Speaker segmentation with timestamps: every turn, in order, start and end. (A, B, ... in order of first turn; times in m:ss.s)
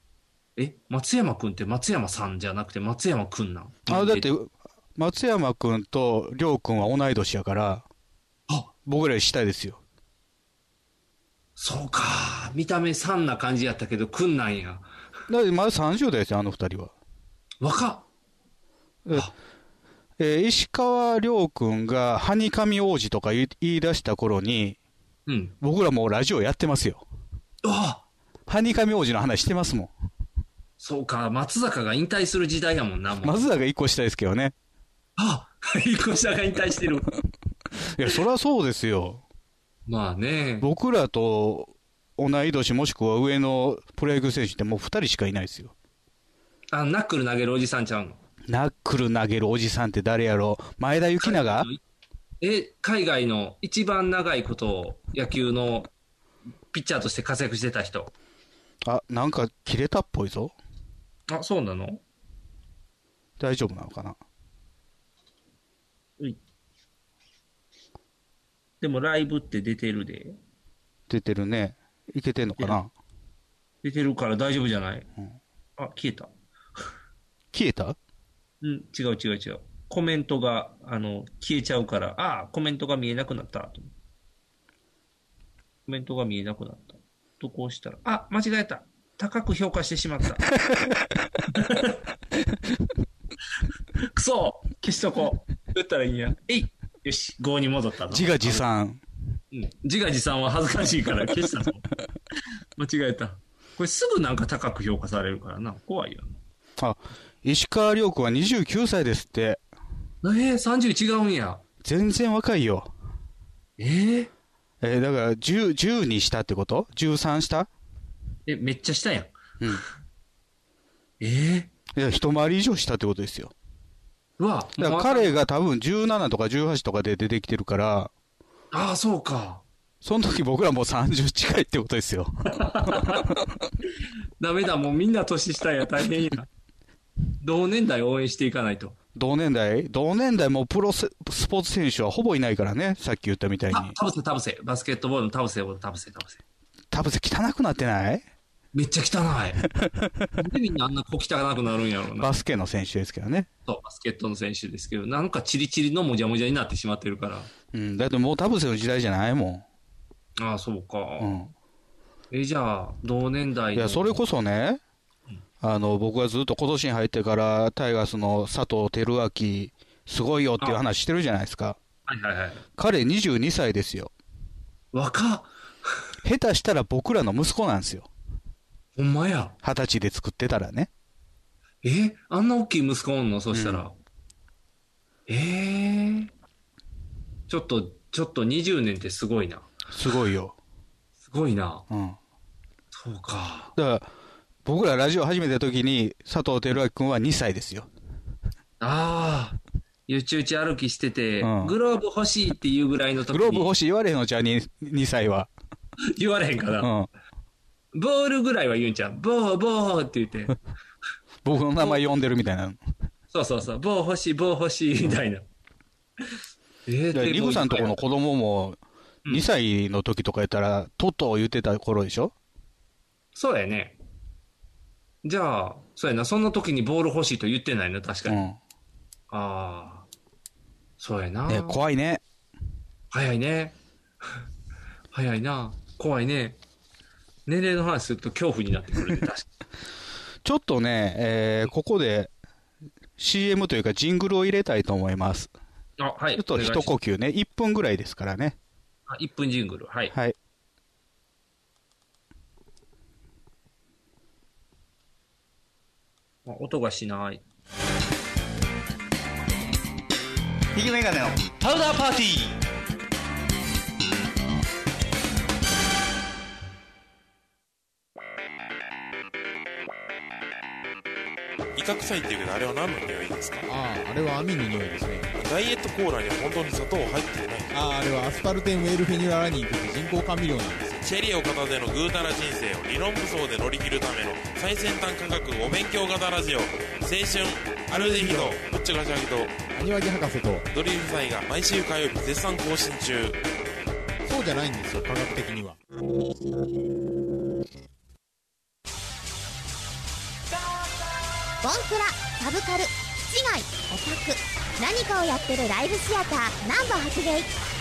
0:00.6-0:04.3 A
0:03.9-0:07.8 B
0:08.9-0:09.8 B
0:11.6-0:14.9 A
0:15.3-0:16.9 B
0:17.6-0:18.0 A
0:20.2-0:24.8 B
0:25.3-0:25.5 A
0:25.6-0:27.0 B
0:27.6-0:28.0 A
0:28.5-0:29.9 B
0:30.8-0:33.5 A
0:33.2-0:34.5 B
0:35.2-0:37.1 A
0:38.0-0:39.2 B
0:39.9-0:40.7 A
0:40.6-0:45.7 B
0:46.7-0:48.2 A
0:48.5-0:51.7 B
0:51.2-0:51.8 A
0:52.4-0:55.9 A
0:56.7-0:58.1 A
0:58.8-1:00.6 B
1:01.3-1:02.0 A
1:03.4-1:04.2 B
1:08.8-1:10.4 A
1:11.1-1:12.9 B
1:13.8-1:15.1 A
1:15.8-1:16.3 A
1:17.5-1:18.0 B
1:18.6-1:23.9 A
1:25.9-1:30.5 A
1:30.6-1:30.9 B
1:31.5-1:32.0 A
1:34.1-1:38.6 A
1:38.1-1:39.0 B
1:39.5-1:41.8 A
1:42.8-1:46.3 A
1:46.8-1:49.6 B
1:50.2-1:51.6 A
1:51.8-1:52.9 B
1:53.8-1:54.3 A
1:54.8-1:57.7 B
1:58.5-1:59.8 A
2:01.2-2:01.7 A
2:01.9-2:03.5 B
2:04.4-2:05.4 A
2:04.8-2:08.1 B
2:08.7-2:09.6 A
2:10.0-2:13.3 B
2:12.5-2:13.3 A
2:14.4-2:16.5 A
2:17.4-2:19.0 A
2:19.2-2:24.0 B
2:23.7-2:26.4 A
2:26.9-2:28.2 B
2:28.7-2:29.6 A
2:29.8-2:30.3 B
2:30.4-2:32.3 A
2:32.2-2:33.5 B
2:33.7-2:37.5 A
2:37.7-2:39.6 B
2:40.4-2:41.4 A
2:41.2-2:41.5 B
2:42.3-2:44.2 A
2:43.8-2:44.8 B
2:45.6-2:51.8 B
2:52.1-2:52.6 A
2:52.8-2:54.1 B
2:54.9-2:55.5 A
2:56.2-2:58.1 B
2:59.0-2:59.6 A
2:59.6-3:00.9 B
3:01.8-3:03.9 A
3:03.5-3:03.8 B
3:05.3-3:06.3 A
3:07.5-3:09.7 A
3:09.9-3:10.6 B
3:11.3-3:11.8 A
3:11.9-3:12.2 B
3:12.9-3:13.7 A
3:13.8-3:14.1 B
3:14.6-3:17.9 B
3:18.8-3:23.7 A
3:21.4-3:21.8 B
3:23.3-3:25.5 B
3:26.1-3:26.9 A
3:26.8-3:27.1 B
3:27.9-3:30.6 A
3:31.4-3:32.8 B
3:33.3-3:35.5 A
3:36.9-3:38.0 A
3:37.1-3:42.3 B
3:43.4-3:44.0 A
3:45.2-3:48.4 A
3:48.3-3:48.6 B
3:49.3-3:50.1 A
3:51.0-3:51.8 A
3:51.5-3:52.2 B
3:53.1-3:53.8 A
3:55.1-3:56.6 A
3:57.5-3:59.5 A
4:00.4-4:02.3 B
4:03.2-4:05.5 B
4:06.0-4:06.9 A
4:06.4-4:08.6 B
4:09.1-4:10.1 A
4:16.5-4:17.4 A
4:20.8-4:22.6 B
4:31.8-4:33.7 C
4:33.7-4:35.3 D
4:35.3-4:37.8 C
4:37.7-4:41.0 D
4:41.0-4:49.5 C
4:48.0-4:48.6 D
4:49.7-4:50.7 D
4:50.7-4:53.4 C
4:54.2-4:55.8 D
5:01.6-5:07.5 E